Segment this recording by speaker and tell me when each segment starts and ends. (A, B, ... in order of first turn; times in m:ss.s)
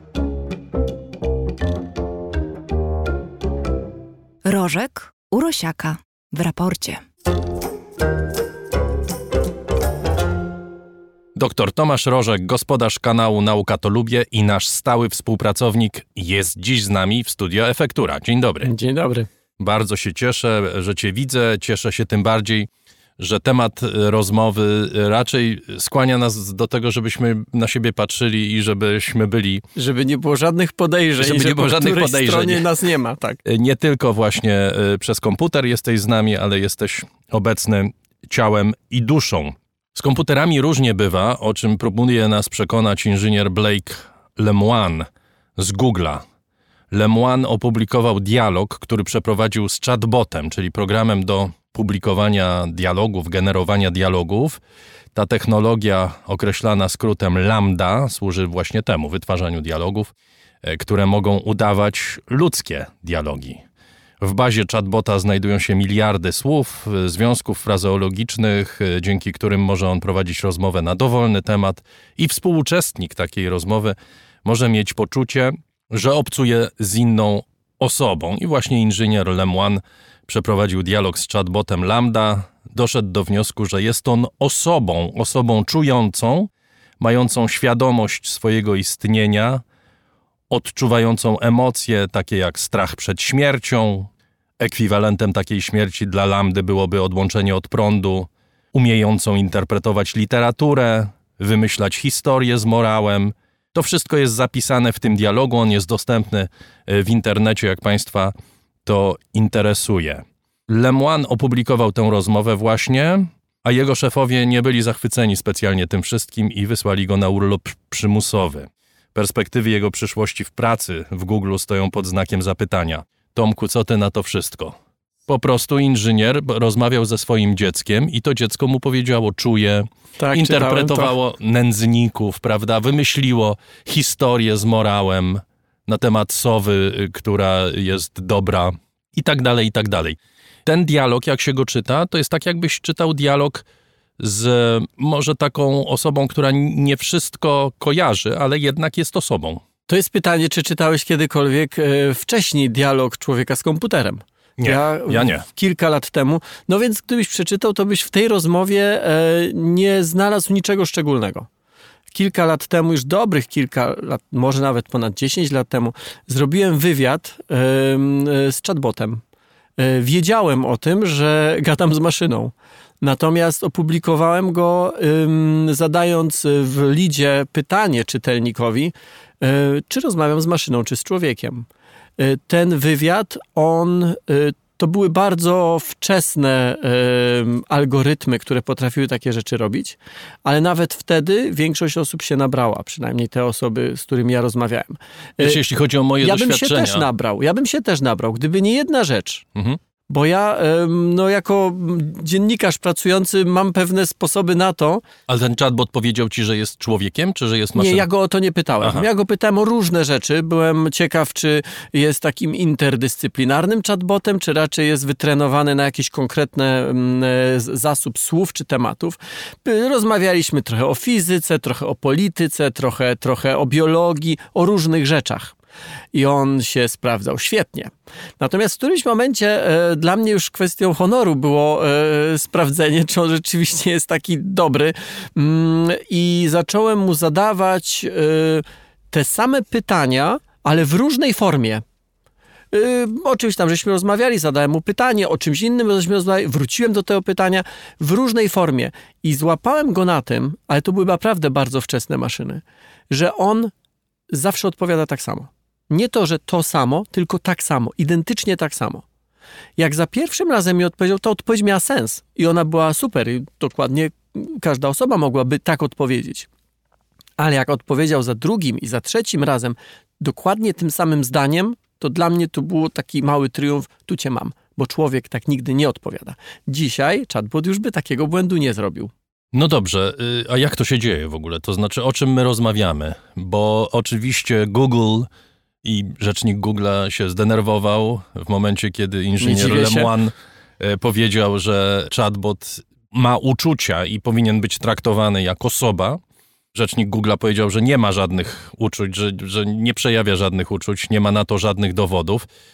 0:04.4-0:07.0 A
0:11.4-0:18.7 B
0:18.6-0:19.3 C
0:19.6-0:29.6 B
0:29.8-0:33.4 C
0:31.2-0:32.6 B
0:33.4-0:46.2 B
0:46.9-0:54.6 B
0:55.1-1:00.1 B
1:00.6-1:03.6 B
1:04.2-1:29.6 B
1:30.5-1:34.1 B
1:34.6-1:48.3 B
1:48.8-2:04.8 B
2:05.3-2:23.6 B
2:10.2-2:11.1 C
2:24.2-2:29.6 B
2:29.9-2:41.5 C
2:34.6-2:35.5 B
2:42.1-2:49.2 C
2:49.8-3:01.6 C
3:02.2-3:15.6 C
3:15.4-3:17.1 B
3:16.2-3:19.4 C
3:20.1-3:25.0 C
3:25.3-3:28.0 B
3:27.8-3:45.5 C
3:28.8-3:29.1 B
3:46.1-4:01.8 C
4:02.7-4:13.7 C
4:14.3-4:19.0 C
4:19.8-4:26.5 C
4:27.4-4:39.1 C
4:39.5-4:45.3 B
4:45.8-4:56.2 B
4:49.4-4:50.1 C
4:56.7-5:02.5 B